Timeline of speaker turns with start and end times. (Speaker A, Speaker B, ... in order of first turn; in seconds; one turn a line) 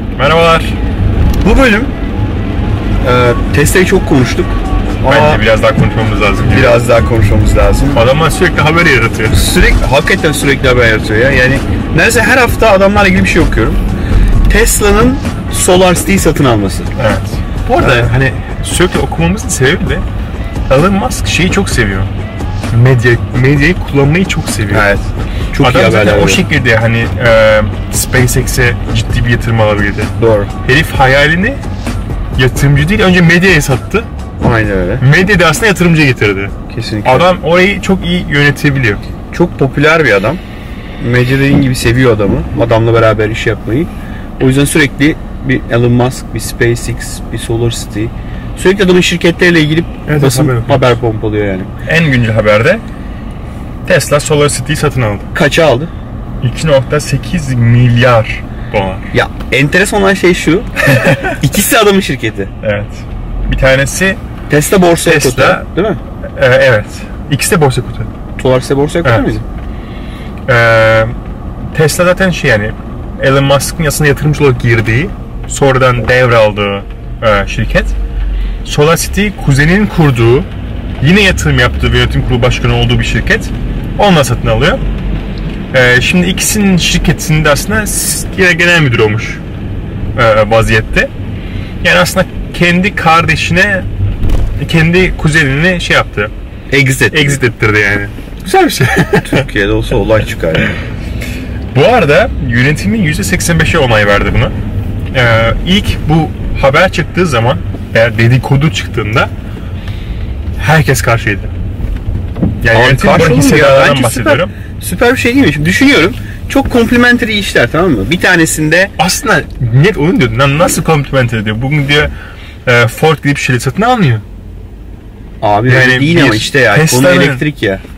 Speaker A: 0.2-0.8
Speaker B: 1.4-1.9
Speaker B: 3.0-5.4
Speaker A: 5.1-6.8
Speaker B: 6.4-8.0
Speaker A: 7.9-9.4
Speaker B: 9.3-13.8
Speaker B: 14.5-16.9
Speaker A: 17.0-20.1
Speaker B: 17.8-18.1
Speaker A: 20.7-22.1
Speaker A: 22.7-24.9
Speaker B: 24.7-26.4
Speaker A: 25.6-31.6
Speaker B: 30.2-30.5
Speaker A: 32.4-34.1
Speaker B: 34.4-35.0
Speaker A: 35.0-36.5
Speaker B: 36.7-37.3
Speaker A: 37.0-39.0
Speaker B: 39.3-40.4
Speaker B: 41.0-51.7
Speaker A: 50.1-51.0
Speaker A: 51.9-52.8
Speaker A: 53.9-55.3
Speaker B: 55.3-55.9
Speaker A: 56.4-59.1
Speaker B: 59.1-62.5
Speaker A: 61.0-61.4
Speaker A: 62.6-64.2
Speaker B: 64.5-66.0
Speaker A: 65.0-65.7
Speaker A: 66.3-68.1
Speaker B: 68.4-69.4
Speaker A: 69.0-69.3
Speaker A: 70.5-71.2
Speaker A: 71.7-77.9
Speaker A: 78.6-80.5
Speaker A: 81.0-84.8
Speaker A: 85.7-89.4
Speaker A: 90.2-91.1
Speaker A: 91.8-93.9
Speaker A: 94.6-96.3
Speaker B: 96.7-97.4
Speaker A: 97.1-99.5
Speaker B: 99.2-100.8
Speaker A: 101.7-104.6
Speaker A: 105.1-109.3
Speaker A: 110.6-111.5
Speaker A: 112.6-114.5
Speaker B: 112.7-118.9
Speaker A: 119.0-122.1
Speaker A: 122.7-124.2
Speaker B: 125.4-127.8
Speaker A: 125.7-127.4